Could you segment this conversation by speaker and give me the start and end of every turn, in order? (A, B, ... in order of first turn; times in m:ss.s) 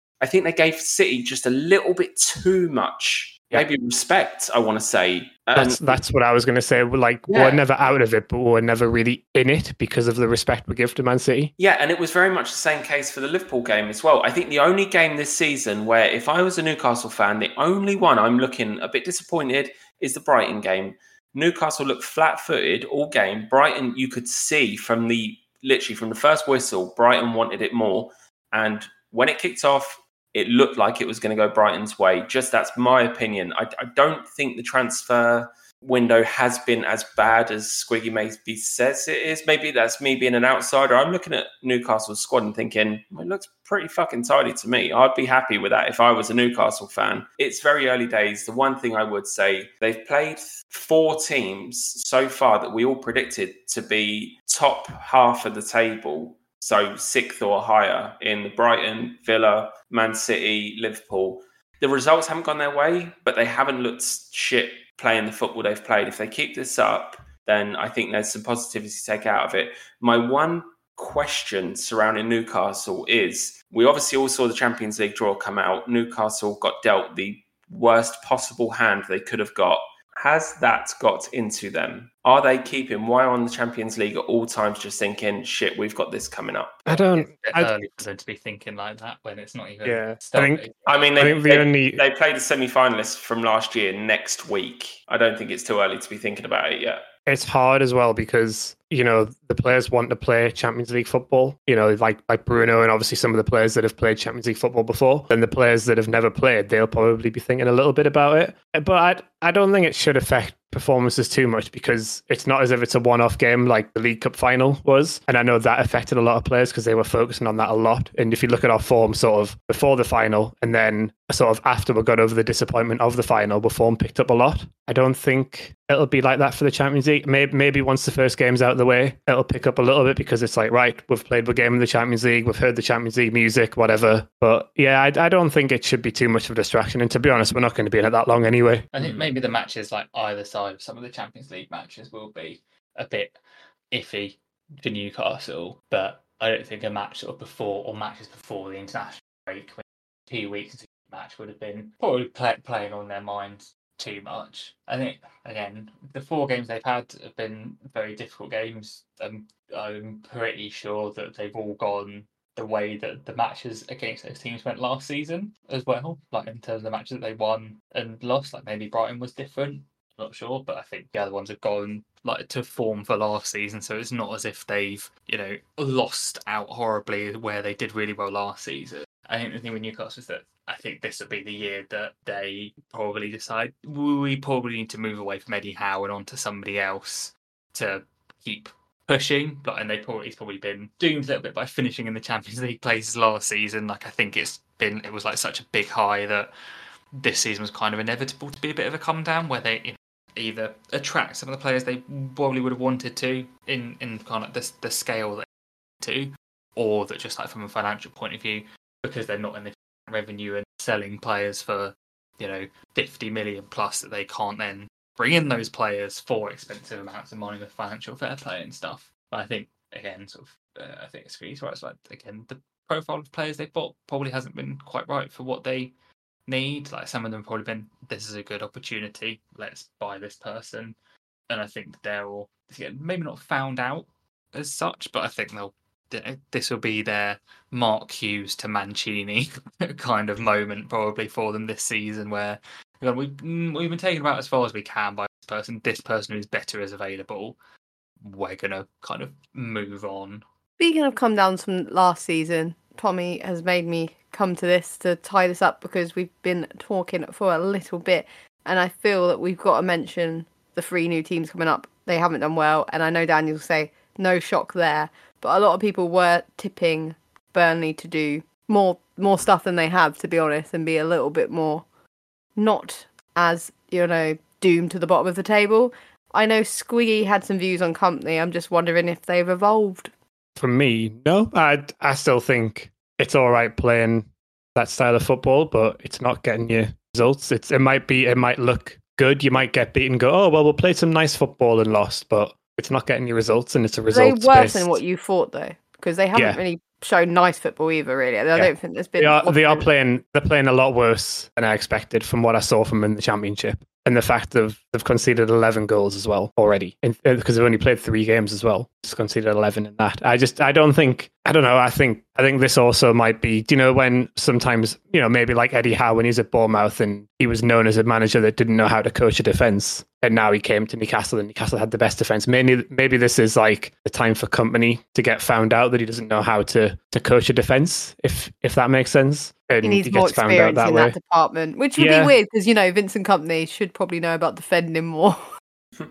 0:00.2-0:06.0 A
0:05.5-0:11.5 B
0:07.3-0:07.6 A
0:11.6-1:26.9 A
1:26.9-1:27.7 B
1:26.9-1:30.8 C
1:29.8-1:30.6 B
1:30.8-1:37.0 A
1:31.2-1:32.0 B
1:37.2-2:18.8 B
2:18.9-2:23.4 C
2:23.9-3:16.5 C
3:17.2-3:25.4 C
3:26.0-3:45.9 C
3:46.5-3:51.0 C
3:51.5-4:07.6 C
4:08.2-4:10.4 C
4:10.8-4:31.8 D
4:32.6-4:40.1 D
4:40.6-4:55.0 B
4:54.1-4:59.9 D
4:56.3-4:56.6 B
4:58.6-5:31.2 B
5:29.8-5:35.4 D
5:32.0-5:32.3 B